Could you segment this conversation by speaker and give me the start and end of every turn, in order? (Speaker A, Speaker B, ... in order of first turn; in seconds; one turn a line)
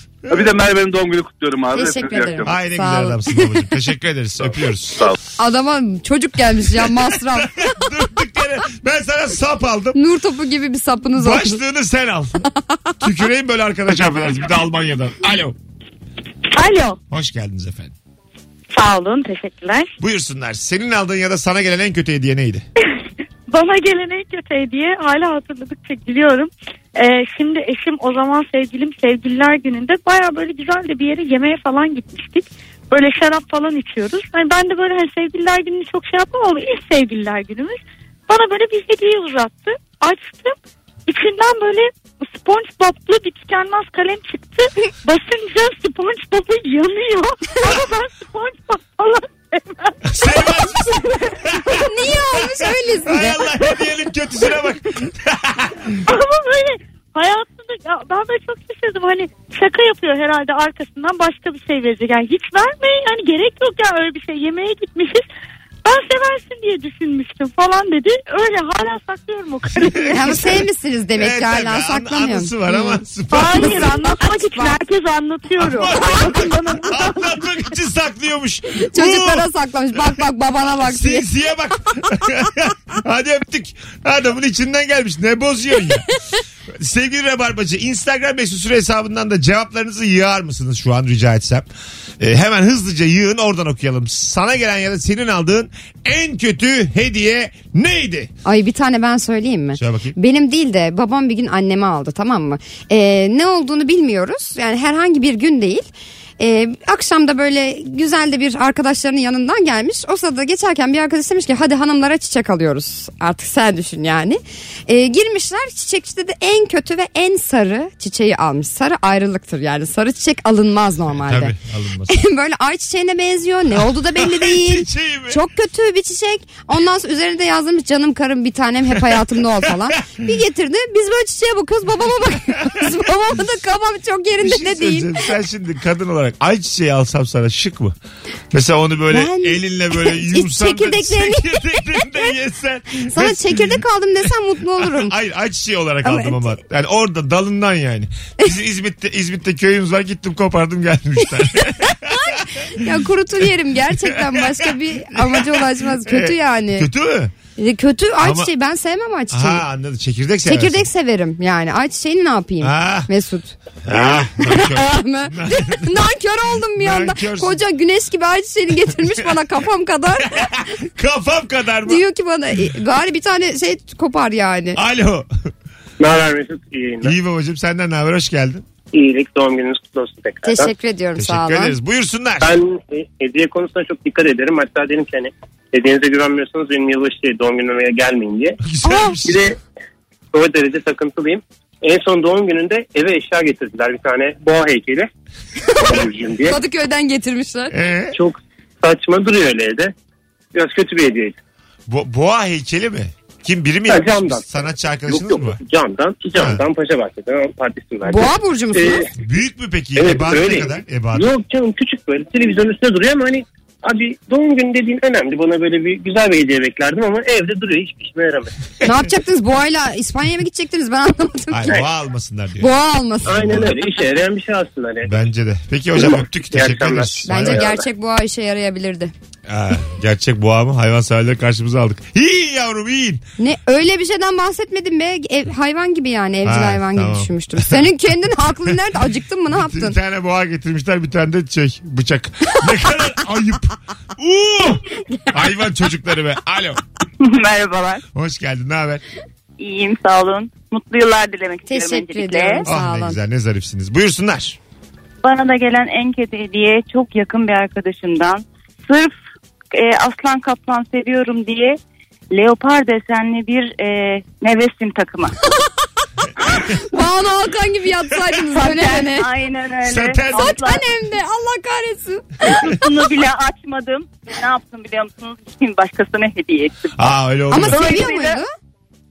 Speaker A: 0.3-0.6
Speaker B: 0.3-2.5
Speaker C: 1.7-3.6
Speaker A: 2.4-5.1
Speaker B: 4.9-5.2
Speaker C: 5.4-7.5
Speaker A: 6.7-10.0
Speaker C: 9.9-11.6
Speaker A: 11.2-12.4
Speaker A: 13.0-15.5
Speaker D: 16.5-17.0
Speaker A: 17.1-17.9
Speaker D: 18.7-19.9
Speaker A: 20.0-22.6
Speaker D: 23.5-50.4
Speaker A: 50.0-56.0
Speaker C: 51.7-53.4
Speaker D: 56.0-65.2
Speaker D: 65.8-70.4
Speaker C: 70.1-74.8
Speaker A: 71.2-74.0
Speaker D: 73.3-77.3
Speaker A: 75.6-80.0
Speaker C: 78.9-81.2
Speaker A: 80.9-86.1
Speaker A: 86.7-91.7
Speaker A: 92.2-98.3
Speaker C: 98.4-105.9
Speaker A: 99.8-100.2
Speaker C: 106.4-121.5
Speaker A: 121.2-122.2
Speaker C: 122.1-135.3
Speaker A: 124.1-125.4
Speaker A: 128.9-130.1
Speaker A: 132.6-132.9
Speaker A: 134.4-137.9
Speaker A: 138.5-143.8
Speaker C: 139.1-142.2
Speaker C: 143.1-145.1
Speaker A: 144.8-152.7
Speaker C: 146.0-146.4
Speaker C: 151.9-156.9
Speaker A: 154.0-157.3
Speaker C: 157.6-159.6
Speaker A: 158.2-158.5
Speaker A: 159.3-160.8
Speaker C: 160.4-170.5
Speaker A: 162.6-163.1
Speaker A: 163.8-166.0
Speaker A: 166.7-167.6
Speaker A: 170.2-172.0
Speaker C: 171.9-174.8
Speaker A: 174.8-175.3
Speaker E: 176.0-177.2
Speaker A: 177.0-178.7
Speaker E: 178.9-180.7
Speaker C: 180.4-181.7
Speaker A: 181.2-182.5
Speaker E: 182.4-188.6
Speaker A: 188.6-189.5
Speaker E: 189.2-189.6
Speaker E: 190.3-195.1
Speaker E: 195.7-196.6
Speaker C: 196.4-197.7
Speaker A: 197.7-198.2
Speaker E: 198.1-199.9
Speaker E: 200.5-201.3
Speaker A: 201.9-205.6
Speaker E: 203.9-209.1
Speaker A: 206.3-206.6
Speaker C: 208.1-209.1
Speaker A: 209.2-211.3
Speaker E: 209.9-218.5
Speaker C: 218.8-221.8
Speaker A: 221.5-222.7
Speaker C: 222.6-223.7
Speaker E: 223.2-225.1
Speaker A: 223.2-223.7
Speaker A: 225.1-227.7
Speaker E: 225.9-227.8
Speaker C: 227.2-229.1
Speaker A: 229.5-233.2
Speaker C: 233.4-239.9
Speaker A: 236.4-237.9
Speaker A: 239.5-246.8
Speaker F: 247.2-248.0
Speaker A: 248.1-249.0
Speaker F: 249.6-252.7
Speaker C: 251.7-253.2
Speaker A: 252.6-254.6
Speaker F: 255.2-259.1
Speaker F: 259.7-261.8
Speaker F: 262.3-265.3
Speaker C: 266.5-269.3
Speaker F: 268.5-270.8
Speaker A: 269.8-270.6
Speaker C: 270.3-272.7
Speaker F: 272.5-276.9
Speaker A: 276.9-277.9
Speaker C: 277.5-278.5
Speaker F: 277.6-278.4